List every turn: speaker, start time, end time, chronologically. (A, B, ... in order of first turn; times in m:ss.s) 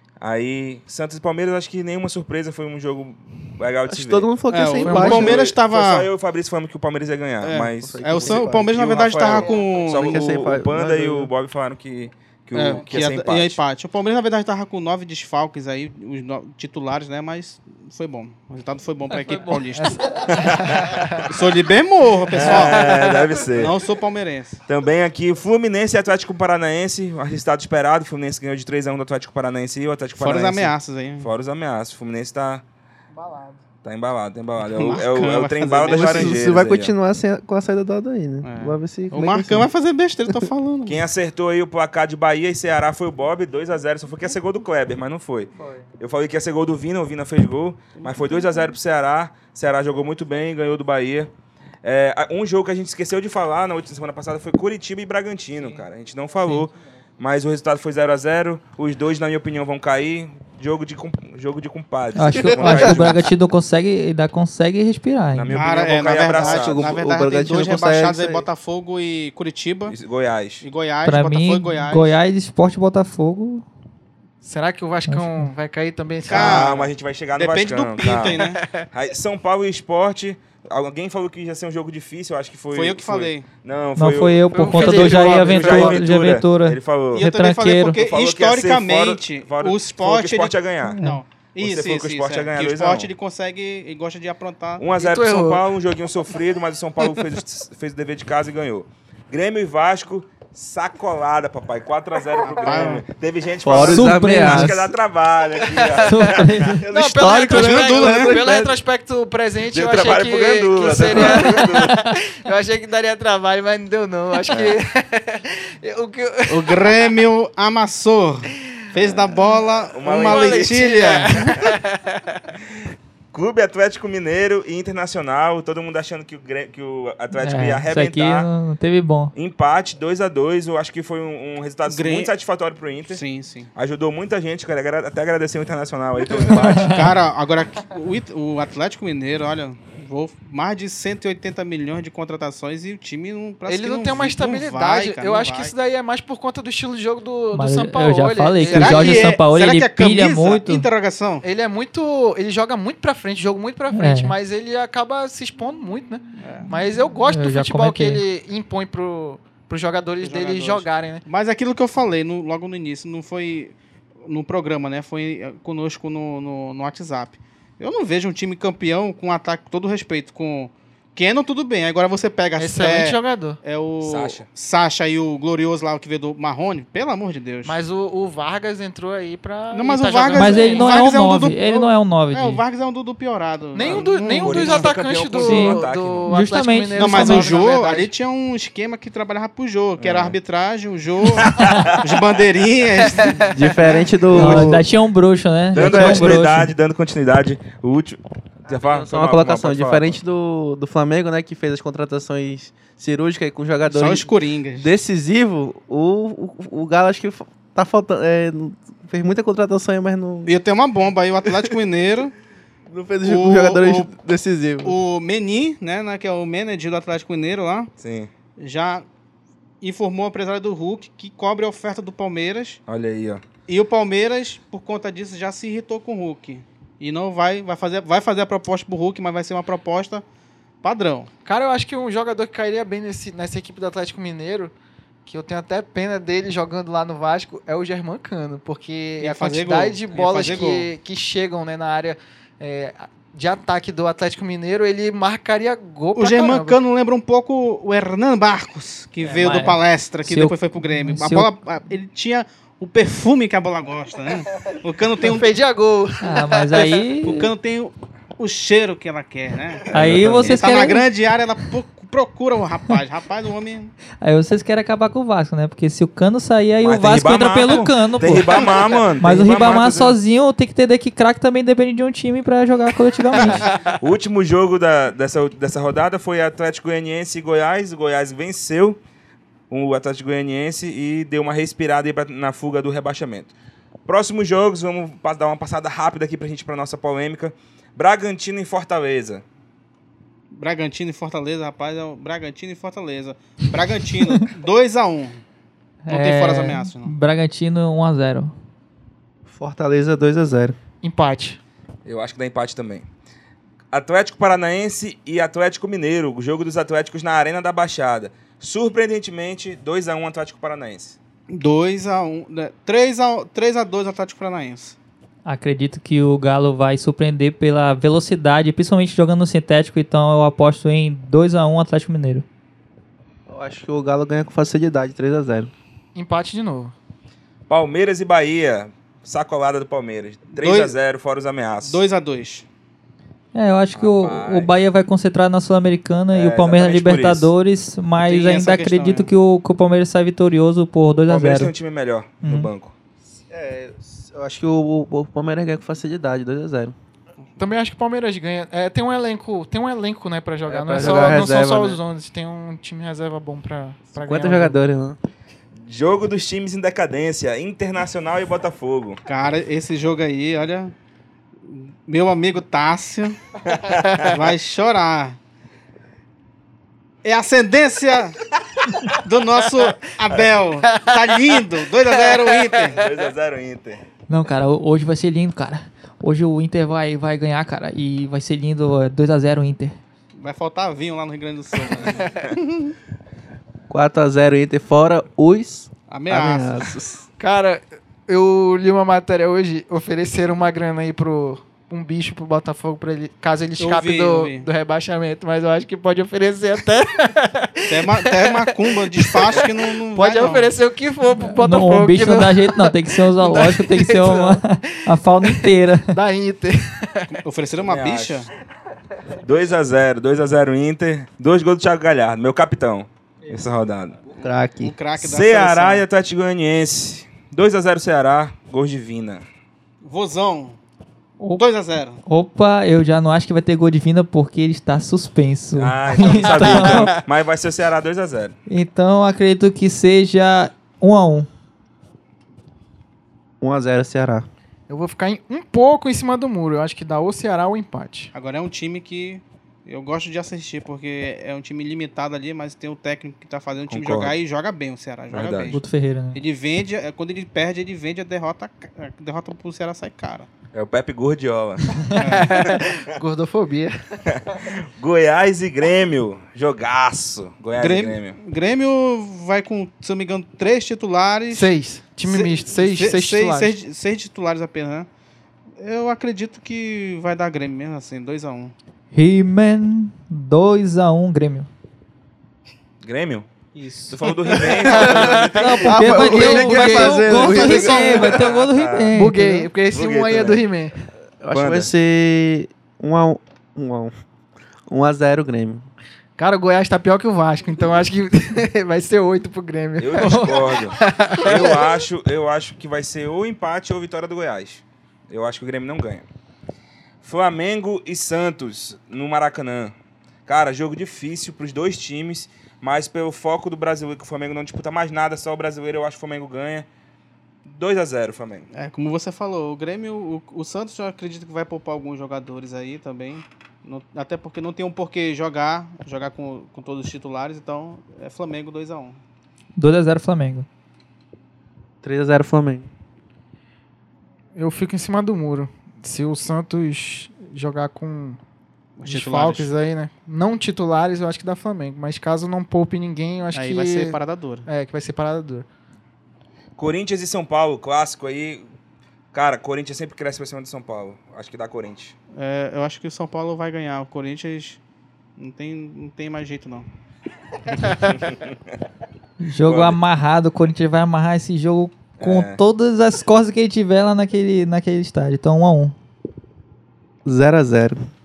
0:00.2-0:04.3 A
0:03.9-0:05.5 B
0:04.5-0:06.1 C
0:04.8-0:13.6 A
0:07.4-0:10.4 C
0:07.8-0:08.8 B
0:09.9-0:11.3 B
0:12.5-0:20.1 C
0:19.2-0:21.2 D
0:20.3-0:21.4 A
0:21.2-0:24.6 C
0:22.3-0:23.8 A
0:22.5-0:23.0 D
0:24.7-0:32.6 A
0:30.2-0:31.3 C
0:33.1-0:33.6 D
0:33.8-0:36.9 A
0:34.6-0:36.4 C
0:35.9-0:39.7 B
0:38.4-0:41.0 C
0:40.9-0:51.3 A
0:48.0-0:48.5 C
0:51.8-1:03.3 A
1:02.2-1:05.7 E
1:02.4-1:03.2 B
1:05.3-1:07.0 A
1:05.5-1:10.0 C
1:06.3-1:08.4 B
1:09.9-1:10.6 A
1:10.6-1:12.1 C
1:11.0-1:13.6 E
1:14.4-1:16.7 D
1:15.1-1:15.5 E
1:16.3-1:18.6 C
1:16.3-1:27.3 A
1:18.3-1:18.9 D
1:22.7-1:23.5 C
1:24.0-1:28.0 E
1:24.5-1:26.0 D
1:27.1-1:34.8 C
1:27.9-1:31.0 A
1:30.8-1:31.2 E
1:31.6-1:33.1 A
1:34.8-1:46.8 A
1:35.0-1:35.6 D
1:42.4-1:43.0 C
1:43.6-1:44.9 B
1:43.8-1:44.9 E
1:45.6-1:57.1 D
1:46.0-1:46.8 E
1:46.8-1:48.8 B
1:47.4-1:48.4 C
1:49.7-1:52.0 A
1:51.1-1:52.1 E
1:56.5-2:01.6 C
1:59.0-2:01.7 A
2:00.2-2:02.4 D
2:03.3-2:08.5 A
2:07.4-2:09.3 E
2:09.3-2:13.2 A
2:11.9-2:12.3 C
2:13.1-2:13.7 C
2:13.7-2:17.1 A
2:16.5-2:17.0 E
2:16.8-2:25.7 C
2:23.7-2:29.3 D
2:27.5-2:30.9 E
2:28.6-2:31.4 C
2:31.4-2:41.2 D
2:33.9-2:34.3 E
2:36.4-2:36.7 C
2:37.3-2:38.2 E
2:40.2-2:57.8 C
2:52.6-2:53.6 D
2:54.0-2:54.5 A
2:57.6-3:01.0 D
2:59.7-3:04.9 C
3:00.3-3:02.6 E
3:03.8-3:08.1 D
3:03.8-3:06.3 A
3:05.4-3:07.6 E
3:07.0-3:13.6 C
3:10.0-3:10.4 A
3:11.4-3:12.1 A
3:13.2-3:13.5 D
3:13.5-3:14.8 B
3:14.3-3:16.7 E
3:14.3-3:14.8 A
3:15.7-3:20.2 A
3:15.8-3:16.4 B
3:18.7-3:30.5 B
3:23.9-3:24.9 C
3:30.5-3:32.3 C
3:32.9-3:35.0 B
3:33.2-3:34.1 C
3:34.8-3:37.9 C
3:38.0-3:38.3 A
3:38.6-3:39.1 C
3:39.8-3:42.8 C
3:42.9-3:43.4 A
3:43.7-3:50.2 C
3:50.8-3:51.3 C
3:51.5-3:54.7 D
3:55.3-4:06.8 D
3:59.2-4:00.9 C
4:06.2-4:15.5 C
4:09.2-4:11.5 E
4:15.3-4:17.1 D
4:16.2-4:17.5 E
4:17.2-4:23.9 C
4:19.9-4:20.6 A
4:19.9-4:21.1 E
4:24.2-4:33.8 E
4:26.8-4:30.2 A
4:33.3-4:39.0 A
4:33.5-4:33.7 D
4:39.7-4:43.5 A
4:44.1-4:49.4 A
4:50.5-4:55.4 C
4:56.0-4:58.5 E
4:56.1-4:57.1 C
4:59.5-5:00.8 B
5:01.0-5:01.6 D
5:02.0-5:03.1 A
5:03.9-5:11.2 A
5:11.5-5:15.0 C
5:15.5-5:22.4 E
5:23.5-5:25.7 B
5:26.2-5:27.0 D
5:27.7-5:32.0 A
5:30.6-5:31.0 C
5:31.8-5:32.7 C
5:33.5-5:41.7 E
5:33.9-5:34.8 A
5:36.3-5:37.5 A
5:38.2-5:39.3 C
5:41.3-5:42.9 A
5:42.4-5:42.7 E
5:43.5-5:47.0 B
5:47.6-5:54.8 D
5:50.7-5:52.0 B
5:54.2-5:55.2 B
5:55.8-5:59.2 A
5:59.3-6:00.9 C
6:01.6-6:03.4 C
6:03.6-6:04.4 A
6:04.2-6:05.4 C
6:07.2-6:08.4 C
6:09.1-6:13.1 C
6:10.9-6:11.2 D
6:12.3-6:12.7 D
6:12.9-6:14.0 A
6:14.3-6:20.0 E
6:20.4-6:23.0 C
6:23.9-6:27.0 B
6:26.1-6:27.2 C
6:27.4-6:47.3 D
6:33.8-6:34.7 C
6:37.9-6:40.7 C
6:41.4-6:46.2 E
6:47.3-6:48.5 C
6:47.8-6:48.5 A
6:49.4-6:54.2 A
6:54.4-6:54.9 B
6:54.8-6:56.1 C
6:55.2-6:59.5 A
7:00.0-7:00.8 C
7:01.5-7:02.2 C
7:02.3-7:07.2 E
7:05.8-7:08.6 A
7:06.2-7:07.2 D
7:08.7-7:11.5 E
7:13.6-7:14.5 B
7:14.9-7:18.3 D
7:18.3-7:25.8 C
7:23.9-7:24.3 A
7:25.3-7:25.8 A
7:25.7-7:26.4 E
7:26.3-7:30.5 C
7:30.7-7:32.0 A
7:32.2-7:34.3 D
7:32.2-7:32.6 C
7:34.3-7:38.4 A
7:37.8-7:41.7 C
7:41.5-7:43.8 D
7:42.3-7:45.1 C
7:45.8-7:48.8 C
7:49.1-7:51.7 E
7:53.0-7:53.5 A
7:53.8-7:54.2 E
7:54.1-7:56.3 A
7:54.6-7:55.4 D
7:54.9-7:58.4 B
7:55.3-7:59.7 E
7:56.1-7:58.4 D
7:58.3-7:59.2 A
7:59.1-8:01.0 D
7:59.9-8:00.6 A
8:01.4-8:04.1 B
8:01.5-8:01.9 A
8:04.9-8:05.9 B
8:06.4-8:11.9 D
8:10.0-8:16.3 A
8:17.2-8:20.0 A
8:20.5-8:26.9 A
8:27.6-8:28.7 A
8:28.7-8:39.2 C
8:39.8-8:40.7 E
8:42.0-8:42.9 B
8:44.6-8:48.4 D
8:49.0-8:49.7 C
8:49.0-8:55.7 D
8:53.5-8:54.7 C
8:56.8-8:58.6 A
8:59.3-9:02.2 A
9:02.3-9:04.8 C
9:05.4-9:06.9 C
9:07.9-9:08.6 A
9:09.4-9:16.0 E
9:09.6-9:10.0 A
9:12.2-9:12.6 A
9:17.2-9:18.0 B